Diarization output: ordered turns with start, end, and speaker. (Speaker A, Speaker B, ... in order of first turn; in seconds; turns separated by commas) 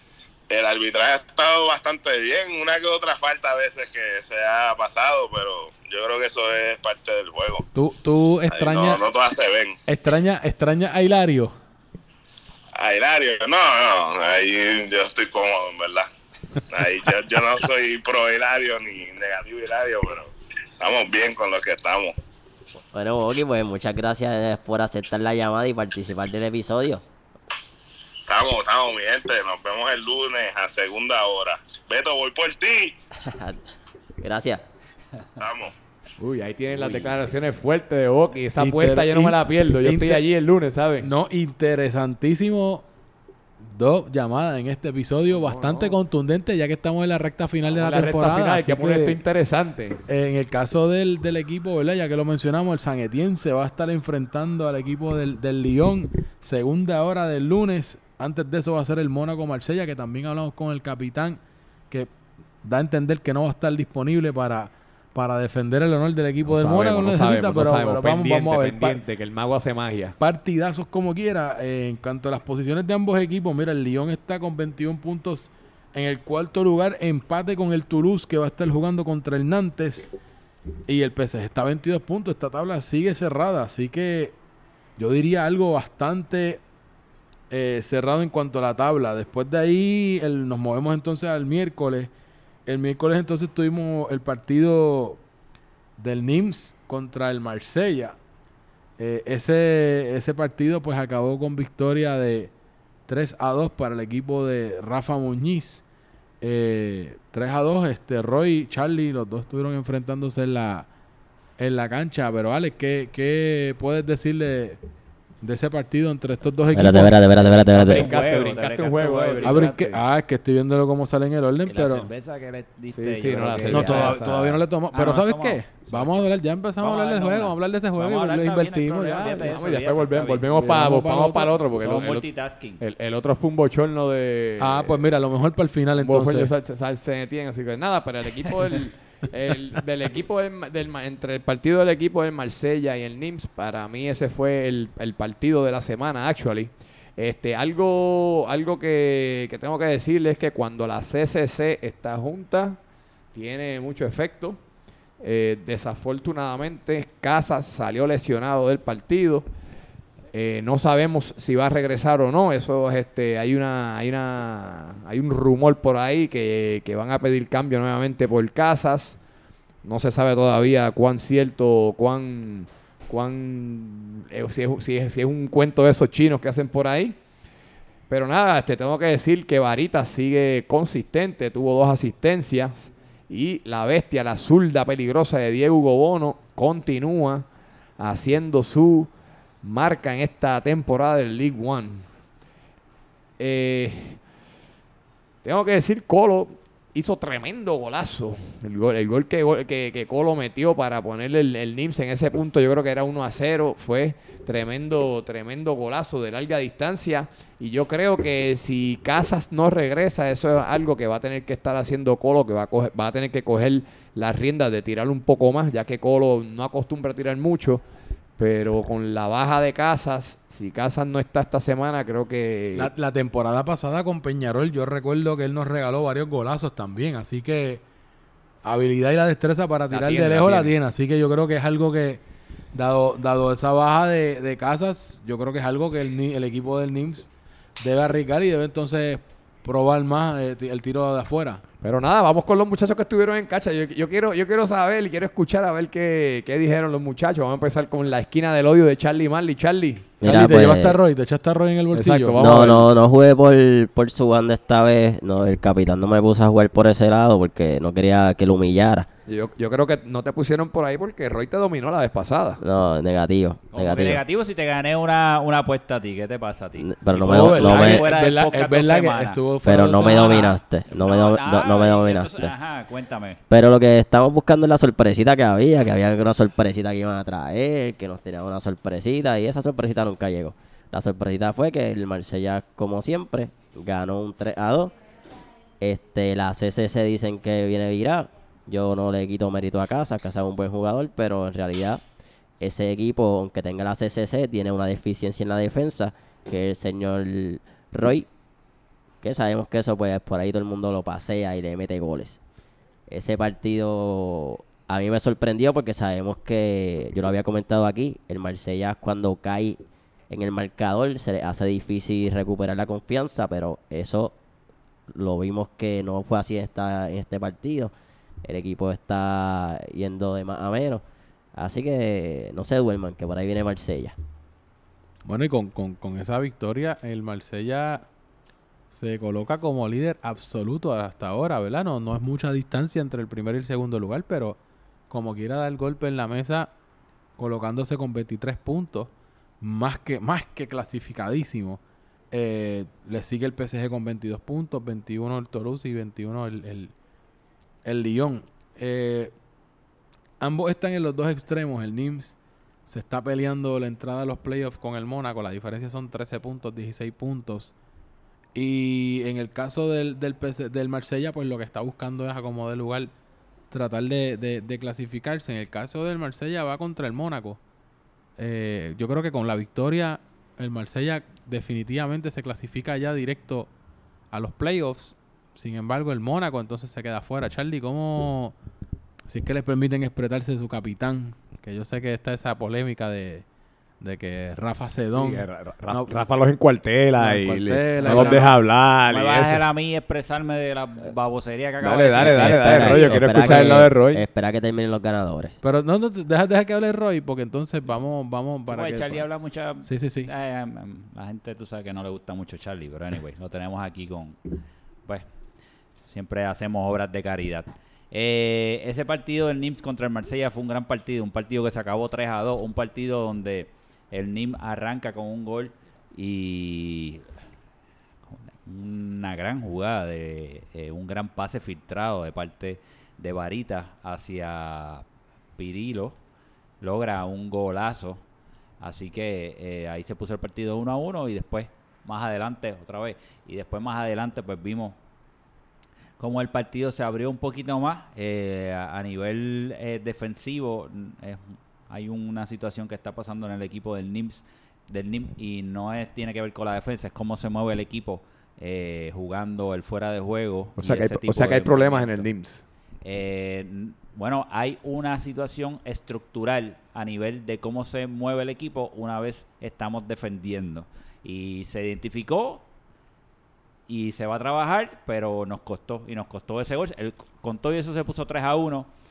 Speaker A: 0.5-7.6, Speaker B: 7.7-9.0, Speaker A: 8.5-9.8, Speaker B: 9.8-11.5, Speaker A: 12.8-16.1, Speaker A: 16.7-22.1, Speaker C: 22.8-27.0, Speaker A: 28.3-32.9, Speaker C: 33.2-33.6, Speaker C: 34.2-34.6, Speaker A: 35.4-35.8, Speaker D: 36.2-41.1, Speaker B: 38.5-40.3, Speaker B: 41.0-42.8, Speaker B: 43.6-49.2, Speaker D: 45.3-46.0, Speaker D: 47.7-50.0, Speaker B: 50.1-62.1, Speaker B: 62.6-69.0, Speaker D: 66.5-70.2, Speaker B: 70.2-80.1, Speaker B: 80.9-84.3, Speaker B: 85.0-86.6, Speaker B: 87.5-92.1, Speaker B: 92.7-95.2, Speaker B: 96.0-98.1, Speaker B: 99.0-102.5, Speaker B: 103.1-105.8, Speaker B: 106.4-110.9, Speaker B: 111.6-114.8, Speaker B: 115.4-117.2, Speaker C: 116.7-118.1, Speaker E: 117.5-120.0, Speaker D: 117.8-120.0, Speaker B: 119.4-122.1, Speaker E: 121.7-126.2, Speaker D: 122.9-124.6, Speaker B: 123.7-129.5, Speaker E: 126.8-130.5, Speaker D: 129.4-132.3, Speaker B: 130.5-131.6, Speaker E: 131.7-132.8, Speaker D: 132.8-135.0, Speaker B: 134.6-136.5, Speaker D: 136.0-152.8, Speaker D: 153.3-154.6, Speaker D: 155.2-159.5, Speaker D: 160.3-169.2, Speaker D: 169.8-177.2, Speaker D: 178.1-187.5, Speaker D: 188.0-189.1, Speaker D: 189.6-192.1, Speaker D: 193.4-194.2, Speaker D: 195.4-217.8, Speaker D: 218.4-222.9, Speaker B: 222.7-227.8, Speaker B: 228.6-232.2, Speaker D: 229.9-230.7, Speaker B: 232.7-241.6, Speaker D: 241.8-250.1, Speaker C: 250.2-251.0, Speaker B: 250.2-252.7, Speaker D: 251.9-252.9, Speaker C: 252.4-259.1, Speaker D: 259.3-262.6, Speaker C: 262.6-264.2, Speaker E: 263.7-269.4, Speaker C: 266.8-268.0, Speaker B: 267.3-270.6, Speaker C: 269.6-272.5, Speaker E: 270.9-273.4, Speaker C: 273.5-284.9, Speaker C: 285.8-292.0, Speaker C: 292.6-298.3, Speaker C: 299.2-302.4, Speaker C: 303.1-314.3, Speaker C: 315.1-317.9, Speaker C: 318.4-321.0, Speaker C: 321.5-324.1, Speaker B: 325.2-328.0, Speaker B: 328.9-334.6, Speaker B: 335.1-336.7, Speaker B: 337.4-339.1, Speaker B: 339.6-341.8, Speaker B: 342.3-346.9, Speaker B: 347.8-349.3, Speaker B: 350.4-357.7, Speaker B: 358.5-363.1, Speaker B: 363.7-367.6, Speaker B: 368.4-373.7, Speaker B: 374.3-378.5, Speaker B: 379.3-383.4, Speaker B: 384.0-386.2, Speaker D: 385.1-389.6, Speaker B: 387.2-388.5, Speaker E: 388.0-388.4, Speaker E: 389.1-393.1, Speaker D: 391.8-394.2, Speaker C: 392.4-395.6, Speaker B: 393.3-393.8, Speaker B: 395.6-399.3, Speaker E: 398.7-404.4, Speaker B: 399.8-400.3, Speaker E: 406.1-417.2, Speaker E: 418.4-425.0, Speaker E: 425.6-426.1, Speaker E: 426.8-428.2, Speaker E: 428.8-434.9, Speaker E: 436.2-452.2, Speaker D: 450.8-452.6, Speaker E: 453.0-462.6, Speaker E: 463.9-468.9